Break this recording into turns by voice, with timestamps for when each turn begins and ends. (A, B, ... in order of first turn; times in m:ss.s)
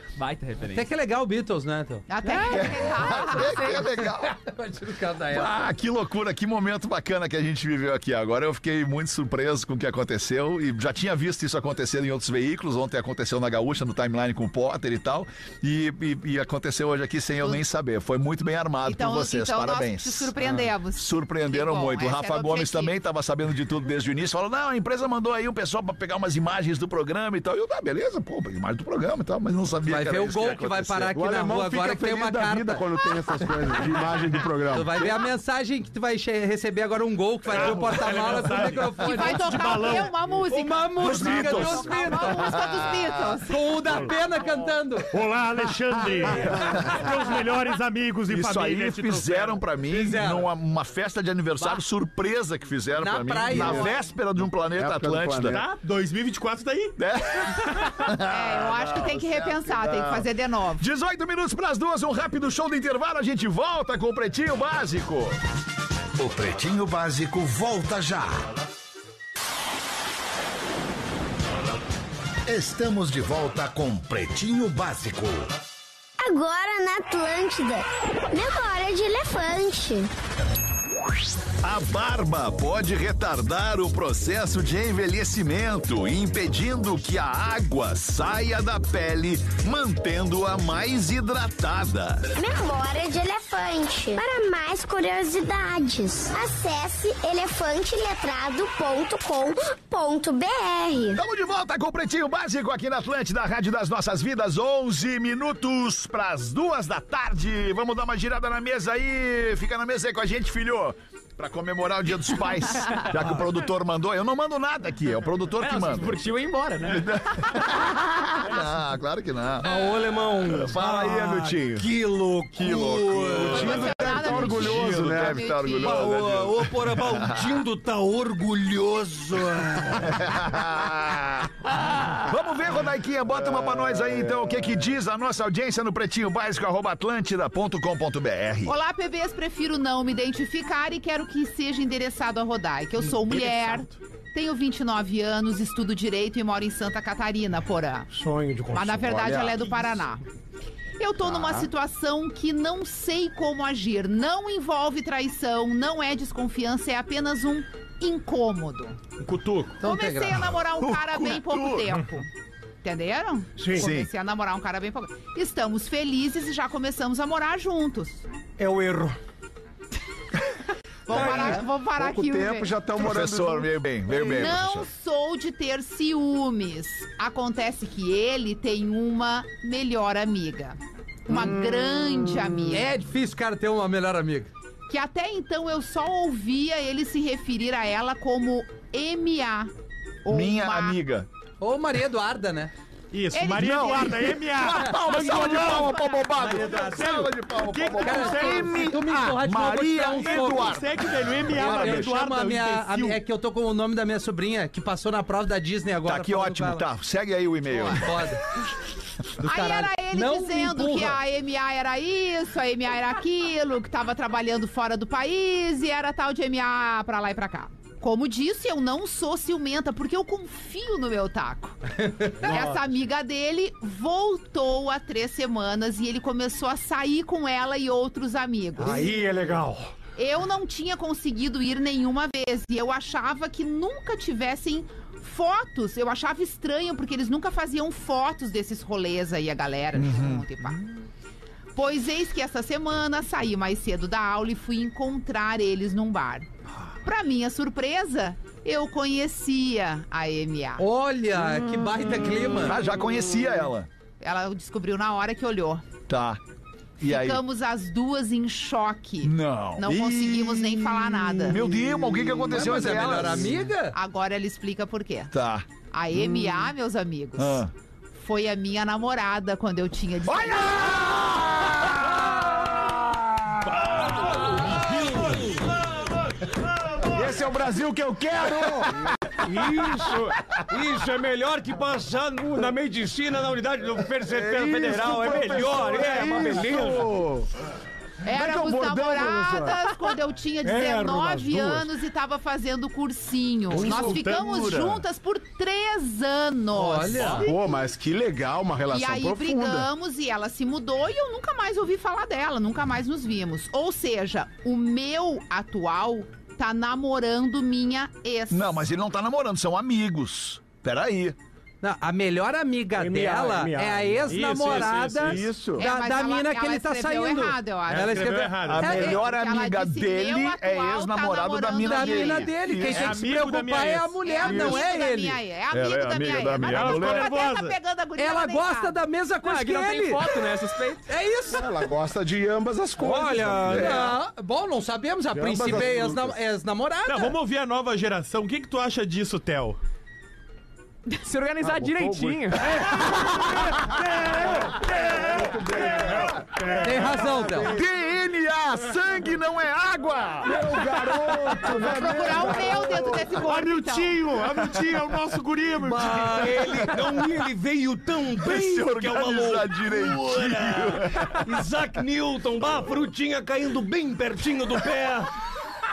0:00.2-0:00.9 A
0:00.7-0:05.5 B
0:02.1-0:03.9 C
0:02.5-0:04.4 D
0:05.3-0:20.3 D
0:18.8-0:22.9 C
0:21.0-0:31.1 D
0:29.8-0:32.8 B
0:31.1-0:35.1 E
0:34.7-0:42.6 B
0:37.5-0:40.1 F
0:39.0-0:43.8 C
0:41.0-0:42.6 D
0:43.5-0:45.1 B
0:45.1-0:49.6 F
0:46.6-0:47.0 D
0:48.3-0:55.6 D
0:49.9-0:50.5 B
0:53.0-0:54.0 B
0:53.5-0:55.6 E
0:55.4-0:56.9 F
0:57.0-1:00.3 D
0:58.2-1:00.8 C
1:00.8-1:05.4 D
1:06.2-1:08.4 G
1:12.5-1:15.5 G
1:16.2-1:20.1 H
1:21.6-1:32.3 D
1:32.4-1:41.2 H
1:41.1-1:56.2 D
1:55.6-1:57.1 A
1:56.8-1:59.7 D
1:59.6-2:03.9 I
2:00.4-2:01.9 D
2:02.5-2:07.6 D
2:03.3-2:05.5 E
2:03.5-2:06.1 C
2:05.8-2:10.2 I
2:10.0-2:11.7 D
2:12.2-2:18.7 D
2:13.3-2:14.8 E
2:18.6-2:28.1 C
2:23.0-2:23.9 F
2:28.1-2:29.2 I
2:28.7-2:30.2 C
2:29.0-2:29.8 E
2:31.0-2:39.0 C
2:31.2-2:31.7 E
2:39.2-2:39.8 F
2:39.8-2:40.4 B
2:39.8-2:42.3 C
2:40.8-2:42.0 D
2:42.8-2:48.2 C
2:43.6-2:43.9 I
2:43.7-2:44.1 D
2:48.6-2:49.2 I
2:51.1-2:52.7 C
2:51.1-2:51.6 D
2:51.1-2:53.7 E
2:53.0-2:54.9 D
2:54.1-3:02.9 C
3:02.7-3:04.5 B
3:04.9-3:09.7 C
3:10.2-3:11.0 C
3:10.3-3:11.3 D
3:11.6-3:12.7 B
3:13.1-3:18.9 F
3:13.3-3:14.3 C
3:13.5-3:22.1 D
3:15.0-3:16.8 C
3:16.3-3:17.0 B
3:18.0-3:20.8 B
3:20.1-3:23.2 F
3:21.5-3:26.8 B
3:26.0-3:28.1 D
3:27.7-3:28.4 B
3:29.4-3:31.2 B
3:29.4-3:49.1 C
3:48.8-3:49.9 I
3:50.2-4:00.8 C
3:59.9-4:00.4 D
4:01.7-4:06.5 C
4:07.0-4:10.8 C
4:10.8-4:12.8 B
4:12.6-4:13.9 D
4:14.2-4:15.8 C
4:16.1-4:16.4 D
4:17.0-4:17.4 D
4:17.0-4:21.7 C
4:19.2-4:20.6 D
4:19.9-4:23.2 E
4:21.4-4:23.5 D
4:22.5-4:24.0 B
4:23.2-4:25.3 C
4:25.3-4:25.6 D
4:25.9-4:27.6 C
4:27.4-4:27.7 D
4:28.2-4:31.0 C
4:30.2-4:32.1 D
4:33.8-4:35.6 I
4:37.0-4:39.1 E
4:39.4-4:47.1 I
4:44.3-4:47.5 E
4:48.2-4:57.6 C
4:48.3-4:49.8 E
4:50.6-4:51.9 I
4:53.7-4:55.0 D
4:53.8-4:54.2 F
4:56.7-4:57.5 B
4:57.4-4:59.9 E
4:58.9-5:08.8 C
5:08.5-5:11.4 D
5:11.8-5:19.2 B
5:13.0-5:15.1 I
5:14.2-5:15.5 F
5:15.2-5:15.8 E
5:15.8-5:22.5 C
5:17.9-5:19.2 F
5:18.6-5:23.2 D
5:21.8-5:25.4 B
5:22.8-5:24.2 F
5:24.2-5:29.0 C
5:24.5-5:24.7 E
5:25.7-5:27.3 D
5:26.6-5:27.8 F
5:28.2-5:30.4 B
5:29.4-5:31.1 A
5:31.1-5:31.7 B
5:31.5-5:34.1 E
5:33.0-5:34.0 I
5:33.6-5:37.3 B
5:35.3-5:36.4 E
5:37.1-5:39.8 F
5:41.2-5:42.8 A
5:41.8-5:42.6 E
5:43.1-5:47.9 E
5:44.5-5:44.7 I
5:44.9-5:45.1 D
5:46.8-5:47.7 B
5:47.7-5:50.6 D
5:50.4-5:53.5 E
5:51.6-5:54.2 C
5:53.4-5:57.1 F
5:55.8-6:05.3 I
5:58.4-6:01.5 D